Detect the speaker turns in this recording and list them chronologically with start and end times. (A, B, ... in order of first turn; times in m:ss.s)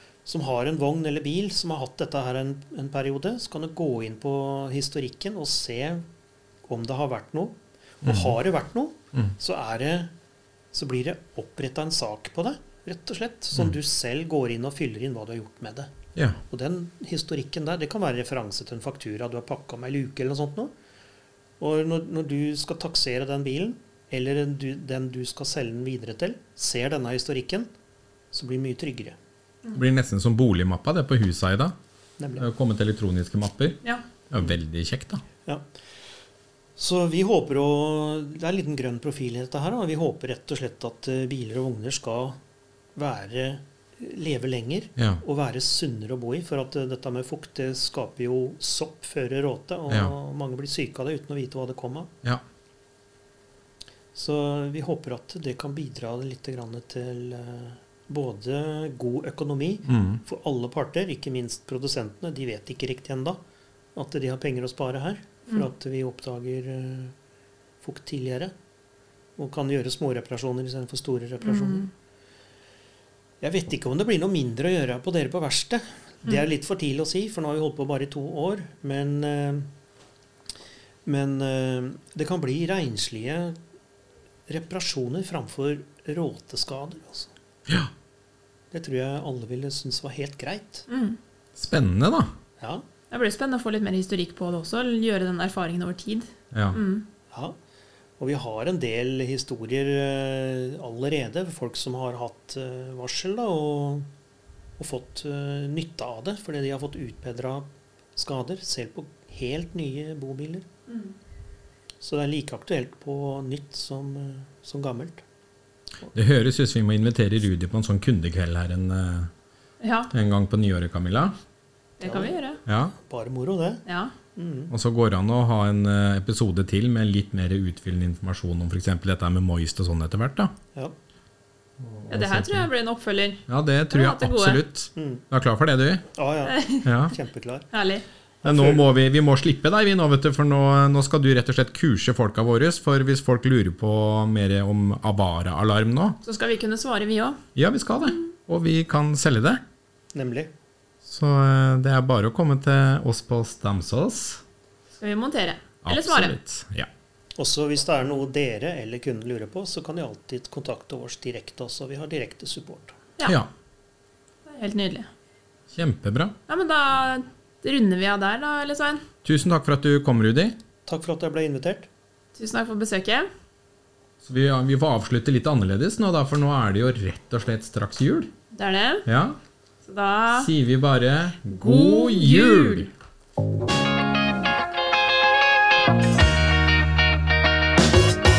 0:00.2-0:06.0 A
0:06.6-0:10.1 A
0:08.0-0:08.3 B
0:10.7-0:15.9 A
0:16.5-0:20.7 A
0:21.6-0:27.7 A
0:28.3-0:29.2 A
0:29.7-0:31.8 B
0:32.2-0:32.5 A
0:32.4-0:35.2 B
0:36.8-0:42.4 A
0:43.0-0:52.1 A
0:49.9-0:50.1 B
0:54.1-1:03.4 A
0:59.9-1:00.2 B
1:04.0-1:07.2 A
1:07.8-1:08.5 A
1:09.4-1:11.9 A
1:11.4-1:11.9 C
1:13.4-1:19.7 A
1:21.0-1:23.6 A
1:24.5-1:27.3 A
1:28.7-1:30.9 A
1:30.9-1:31.2 C
1:31.6-1:32.3 B
1:32.6-1:32.8 A
1:33.1-1:37.0 C
1:36.5-1:36.8 B
1:37.3-1:37.6 A
1:38.2-1:44.1 A
1:44.8-1:50.7 A
1:50.9-1:51.1 C
1:52.0-1:55.2 A
1:56.1-1:59.3 B
1:59.8-2:00.1 C
2:00.1-2:01.4 B
2:02.0-2:02.6 C
2:02.0-2:02.4 A
2:02.7-2:02.9 B
2:03.0-2:03.8 A
2:03.9-2:04.1 C
2:04.4-2:04.7 A
2:04.7-2:10.5 B
2:11.8-2:12.7 B
2:12.1-2:14.6 C
2:13.5-2:16.0 B
2:15.0-2:15.2 A
2:16.1-2:17.7 A
2:16.5-2:16.9 C
2:16.8-2:17.1 B
2:17.7-2:18.0 C
2:18.4-2:18.9 A
2:18.4-2:26.2 B
2:26.2-2:27.4 C
2:27.6-2:29.6 B
2:30.1-2:30.5 A
2:31.0-2:34.4 B
2:34.9-2:36.4 C
2:35.8-2:36.9 B
2:37.4-2:43.0 A
2:44.5-2:45.1 C
2:45.7-2:46.4 B
2:46.5-2:49.0 C
2:49.2-2:50.6 B
2:50.9-2:51.9 A
2:52.4-2:53.3 C
2:54.2-2:58.3 B
2:58.5-2:59.0 C
2:59.1-2:59.4 B
2:59.8-3:00.5 C
3:00.3-3:02.9 B
3:01.5-3:02.9 C